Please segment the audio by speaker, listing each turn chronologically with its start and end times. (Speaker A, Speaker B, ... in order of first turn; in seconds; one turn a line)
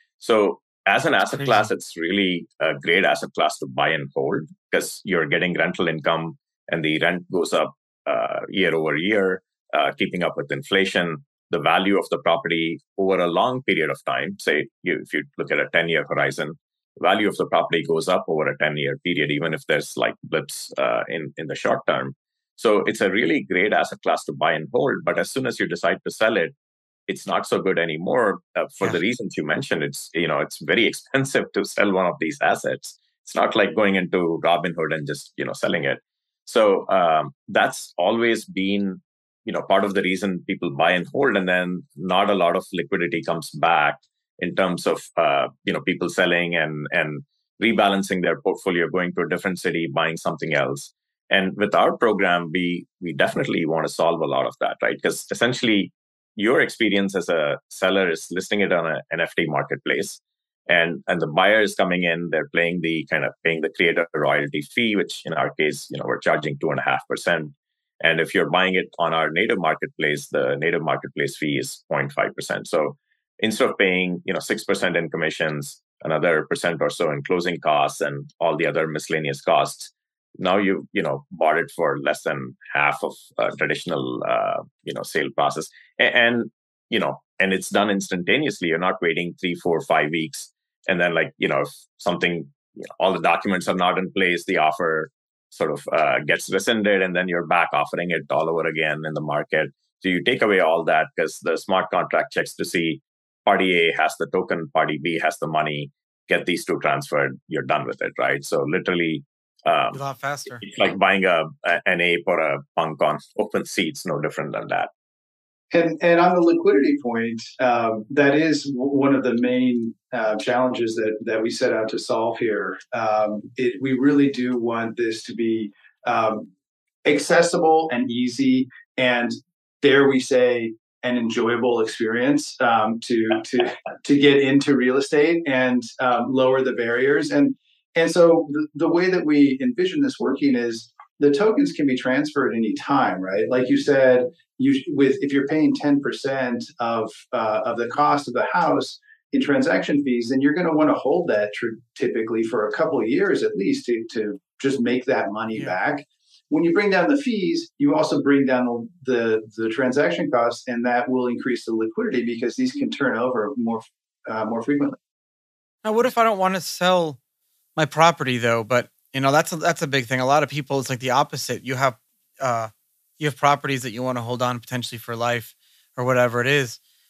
Speaker A: 0.2-26.6
Speaker B: 1.3-1.7
Speaker A: 27.1-110.0
Speaker B: 109.9-110.6
Speaker A: 110.6-114.9
Speaker C: 115.7-126.5
Speaker C: 127.0-165.0
Speaker B: 155.5-155.8
Speaker B: 165.8-167.2
Speaker B: 167.8-176.8